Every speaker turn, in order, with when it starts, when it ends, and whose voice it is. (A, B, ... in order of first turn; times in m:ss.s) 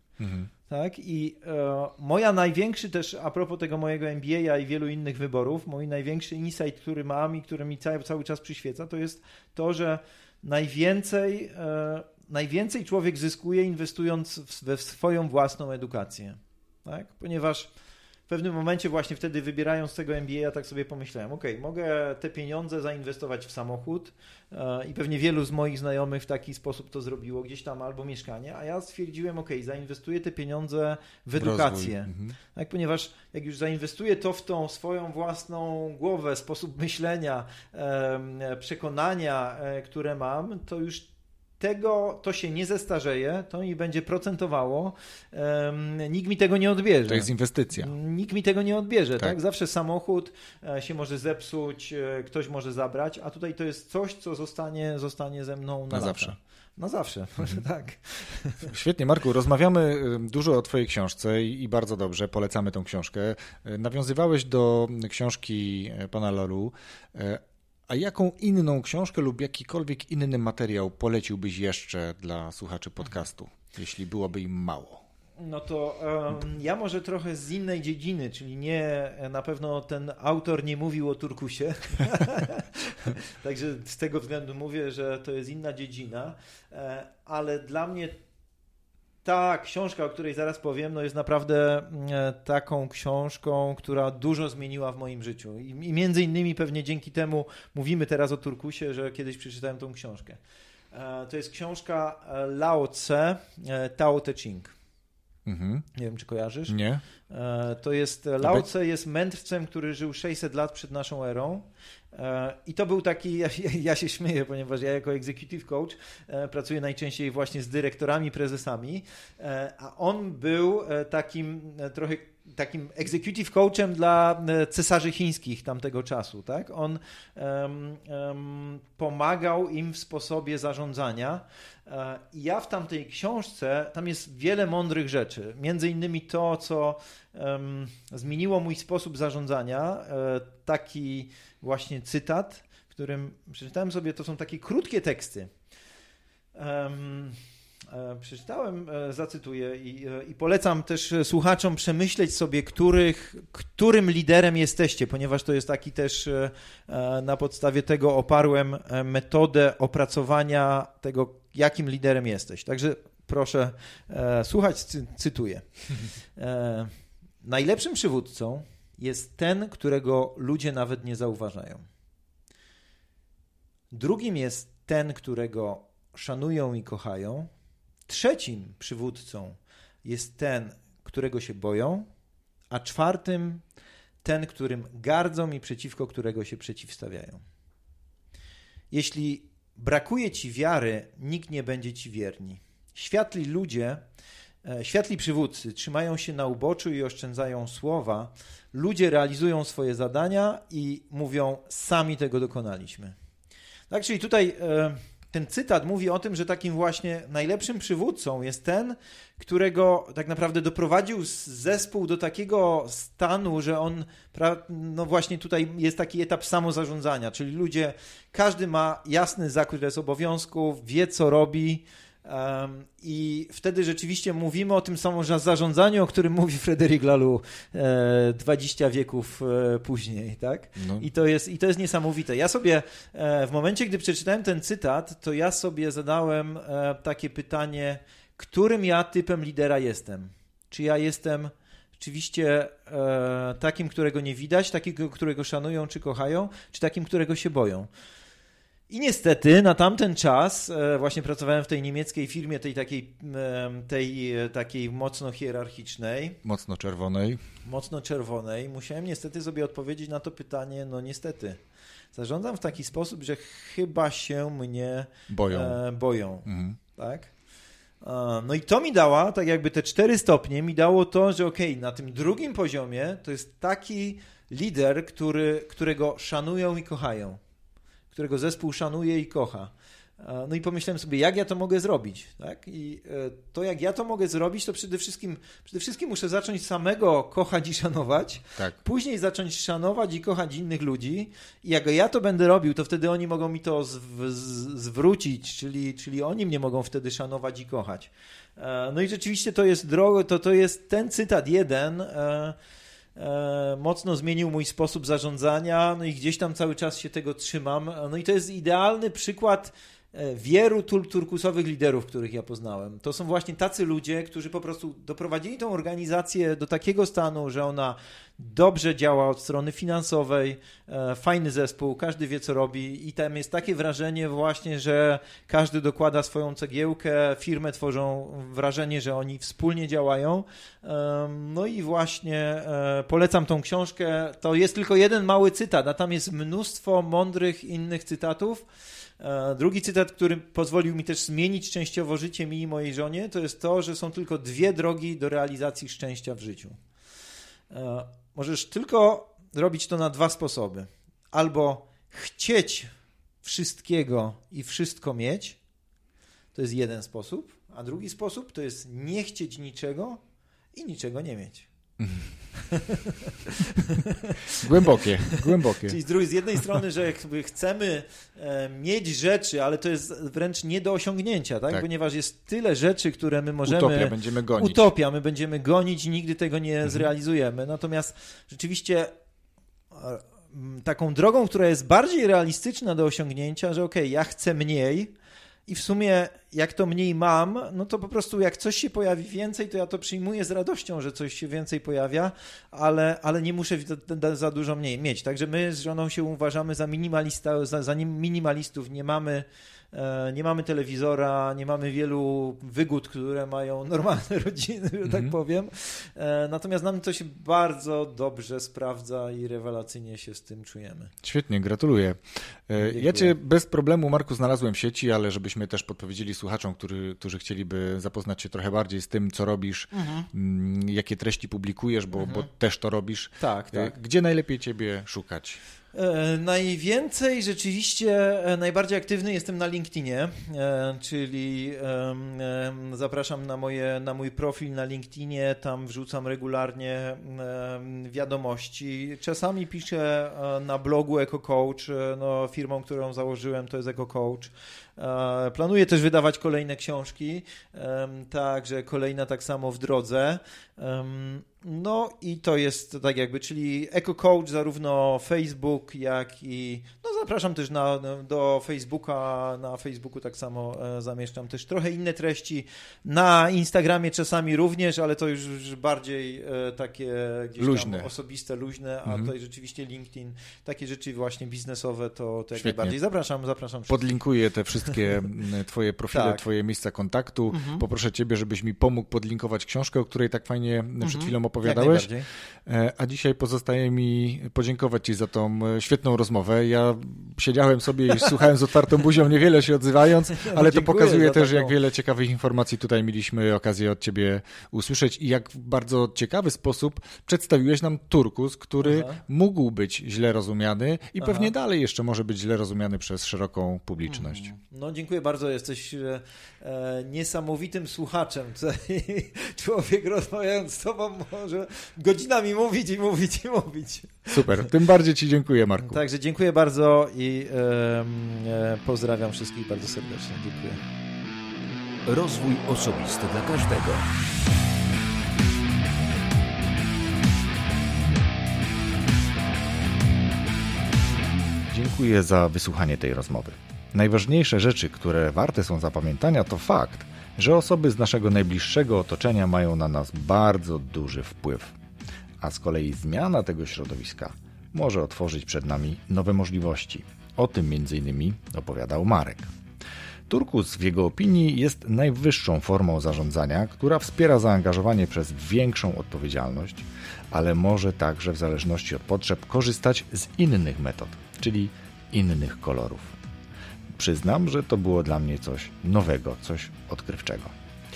0:00.2-0:00.5 A
0:00.7-0:17.7 B
0:18.3-0:41.1 B
0:31.4-0:32.4 A
0:41.6-0:58.7 B
0:47.1-0:47.9 A
0:55.9-0:56.4 A
0:58.7-1:15.0 A
1:15.4-1:28.2 B
1:29.2-1:40.4 B
1:40.9-1:44.7 B
1:45.4-1:45.9 A
1:45.9-1:46.8 B
1:46.7-1:47.0 A
1:47.3-2:25.5 B
2:26.6-2:27.4 B
2:27.9-2:45.6 B
2:46.4-2:46.9 B
2:47.4-2:51.8 B
2:53.9-2:57.5 B
2:58.1-3:02.1 B
3:02.7-3:03.6 B
3:04.2-3:07.4 B
3:08.9-3:14.0 B
3:14.6-3:23.1 B
3:23.9-4:07.9 B
3:50.8-3:51.1 A
4:08.9-4:16.4 B
4:16.4-4:17.4 A
4:17.6-4:21.6 B
4:22.1-4:27.3 B
4:25.3-4:25.8 A
4:26.4-4:26.8 A
4:28.0-4:37.4 B
4:38.1-5:02.6 B
5:03.2-5:38.6 B
5:39.2-5:46.8 B
5:47.7-5:52.9 B
5:53.4-5:55.6 B
5:56.5-6:00.2 B
6:00.7-6:01.7 B
6:02.0-6:02.3 A
6:02.6-6:19.1 B
6:04.6-6:06.0 A
6:13.6-6:14.8 A
6:19.9-6:25.1 B
6:25.7-6:51.1 B
6:45.0-6:45.3 A
6:51.2-7:05.6 A
6:52.8-6:53.3 B
6:59.9-7:00.3 B
7:02.2-7:02.5 B
7:03.4-7:03.9 B
7:05.9-7:54.2 B
7:47.6-7:48.1 A
7:49.0-7:49.3 A
7:52.6-7:53.0 A
7:53.9-8:02.1 A
7:56.1-7:56.4 B
7:57.5-7:57.8 B
8:01.0-8:02.3 B
8:02.6-8:24.5 A
8:10.3-8:11.8 B
8:18.8-8:19.2 B
8:21.2-8:21.5 B
8:24.1-8:34.7 B
8:34.3-8:36.0 A
8:35.8-8:40.8 B
8:42.0-8:44.1 C
8:51.7-9:01.7 A
9:02.4-9:09.5 A
9:10.3-9:23.2 A
9:23.9-9:27.5 A